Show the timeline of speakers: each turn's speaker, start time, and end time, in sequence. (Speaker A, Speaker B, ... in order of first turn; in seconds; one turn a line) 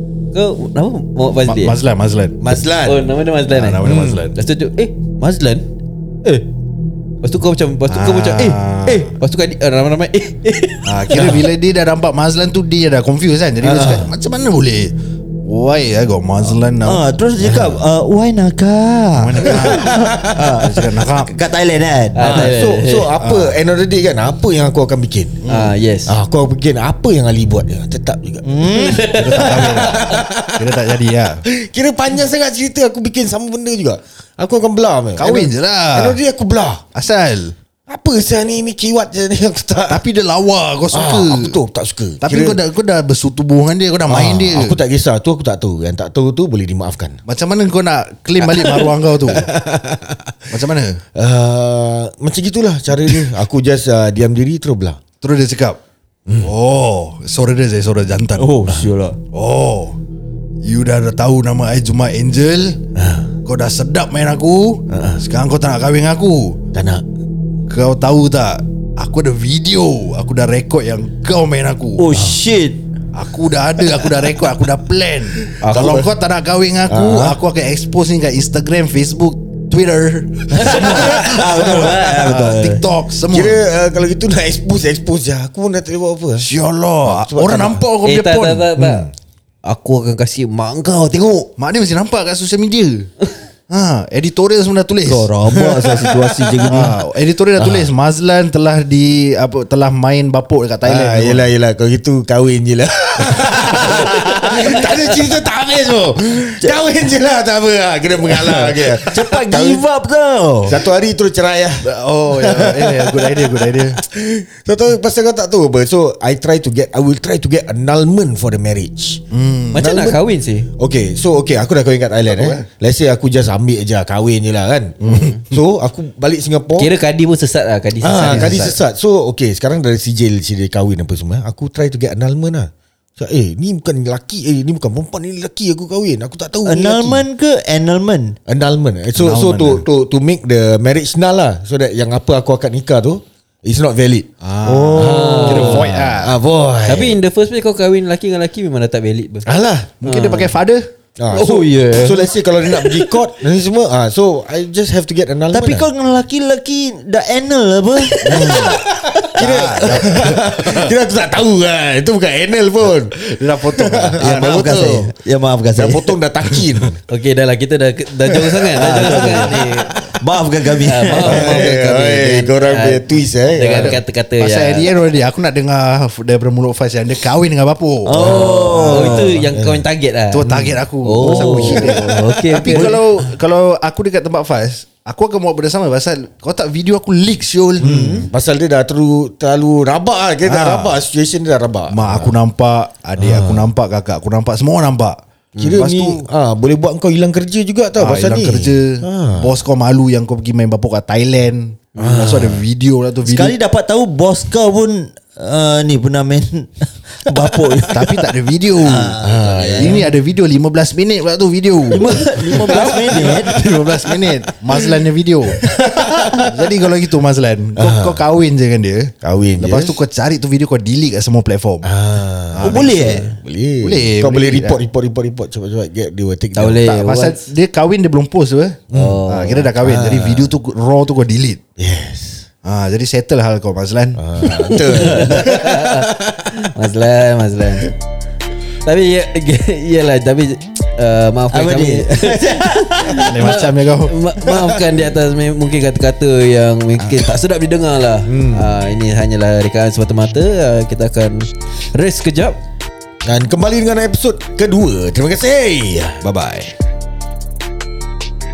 Speaker A: 0.3-1.8
Speaker B: 1.4-2.4
Speaker C: 2.4-3.0
Speaker A: 2.9-5.6
Speaker B: 3.5-4.3
Speaker C: 3.8-4.3
Speaker A: 7.2-11.4
Speaker B: 7.9-9.1
Speaker B: 10.8-17.7
Speaker C: 13.6-14.1
Speaker D: 16.8-22.6
Speaker B: 19.1-21.3
Speaker C: 19.5-20.6
Speaker A: 22.1-23.1
Speaker C: 22.2-25.4
Speaker B: 23.2-23.5
Speaker B: 25.4-25.7
Speaker A: 25.4-26.1
Speaker C: 26.1-36.8
Speaker D: 28.4-29.1
Speaker A: 28.6-30.2
Speaker B: 29.1-31.4
Speaker B: 35.2-36.2
Speaker B: 36.9-37.5
Speaker C: 37.9-40.0
Speaker B: 39.9-41.6
Speaker C: 40.9-42.6
Speaker B: 42.2-44.8
Speaker C: 44.1-47.2
Speaker B: 47.2-49.5
Speaker C: 48.6-50.3
Speaker B: 50.5-51.0
Speaker C: 51.1-55.0
Speaker B: 55.2-55.8
Speaker C: 56.3-56.5
Speaker B: 56.4-58.6
Speaker D: 58.4-59.2
Speaker B: 59.3-60.0
Speaker B: 60.6-62.8
Speaker C: 62.9-63.3
Speaker B: 63.5-66.6
Speaker C: 64.9-65.2
Speaker C: 66.7-67.0
Speaker B: 67.7-72.1
Speaker D: 72.0-72.8
Speaker C: 72.1-72.4
Speaker B: 73.1-83.6
Speaker C: 75.4-76.1
Speaker C: 76.9-77.4
Speaker D: 80.6-82.8
Speaker A: 80.6-81.1
Speaker C: 80.8-81.6
Speaker A: 81.6-82.3
Speaker C: 83.3-86.5
Speaker B: 86.4-88.7
Speaker C: 87.0-87.8
Speaker A: 88.0-89.1
Speaker C: 88.8-89.1
Speaker A: 89.6-91.5
Speaker B: 91.6-93.1
Speaker B: 93.7-96.0
Speaker D: 95.0-97.0
Speaker C: 96.2-96.9
Speaker B: 96.7-101.5
Speaker C: 97.6-97.9
Speaker C: 100.8-109.8
Speaker B: 103.3-104.8
Speaker D: 103.5-104.8
Speaker D: 108.3-110.8
Speaker C: 110.6-119.2
Speaker B: 111.8-114.0
Speaker B: 119.3-119.8
Speaker A: 119.7-120.7
Speaker C: 119.7-120.2
Speaker C: 120.8-126.9
Speaker B: 122.3-122.7
Speaker B: 125.0-125.4
Speaker A: 125.0-125.4
Speaker A: 126.8-128.8
Speaker C: 128.0-137.2
Speaker B: 128.3-128.6
Speaker D: 136.7-138.3
Speaker C: 138.5-144.3
Speaker B: 139.2-139.8
Speaker B: 144.4-146.3
Speaker D: 144.6-145.9
Speaker C: 144.9-147.2
Speaker A: 145.0-145.9
Speaker A: 146.8-149.4
Speaker C: 149.4-150.0
Speaker B: 150.0-150.9
Speaker A: 150.0-150.5
Speaker C: 151.2-155.9
Speaker A: 151.3-153.1
Speaker D: 155.5-160.3
Speaker A: 158.1-158.6
Speaker C: 158.2-165.1
Speaker B: 159.4-160.9
Speaker B: 163.2-164.2
Speaker D: 164.2-166.2
Speaker C: 165.7-167.0
Speaker B: 166.6-166.9
Speaker A: 167.1-169.9
Speaker D: 168.7-171.6
Speaker C: 168.8-170.2
Speaker A: 170.8-174.9
Speaker C: 171.1-174.0
Speaker B: 173.6-178.5
Speaker D: 178.0-179.5
Speaker C: 178.2-179.8
Speaker A: 178.2-180.4
Speaker B: 180.3-188.2
Speaker C: 180.4-180.8
Speaker A: 181.0-183.0
Speaker D: 181.3-181.8
Speaker C: 181.3-182.0
Speaker D: 182.7-183.3
Speaker D: 187.8-188.3
Speaker C: 187.8-192.3
Speaker B: 190.4-191.0
Speaker B: 191.9-196.2
Speaker C: 193.2-193.7
Speaker A: 195.5-195.8
Speaker C: 195.6-199.6
Speaker B: 198.0-203.5
Speaker C: 202.0-202.6
Speaker D: 203.2-210.1
Speaker B: 207.9-209.2
Speaker C: 209.2-210.1
Speaker B: 209.8-221.9
Speaker D: 211.9-213.6
Speaker C: 215.6-216.3
Speaker C: 217.8-218.2
Speaker C: 219.2-220.0
Speaker C: 221.8-226.9
Speaker B: 222.5-223.3
Speaker D: 222.6-223.3
Speaker B: 223.8-224.8
Speaker A: 226.5-227.4
Speaker B: 226.8-231.6
Speaker C: 228.9-230.5
Speaker A: 228.9-229.7
Speaker C: 231.8-232.4
Speaker B: 232.6-234.2
Speaker C: 234.2-236.7
Speaker A: 234.7-237.9
Speaker A: 238.8-252.6
Speaker D: 241.5-243.6
Speaker B: 243.2-244.1
Speaker C: 248.3-248.7
Speaker C: 253.2-256.2
Speaker B: 256.2-256.7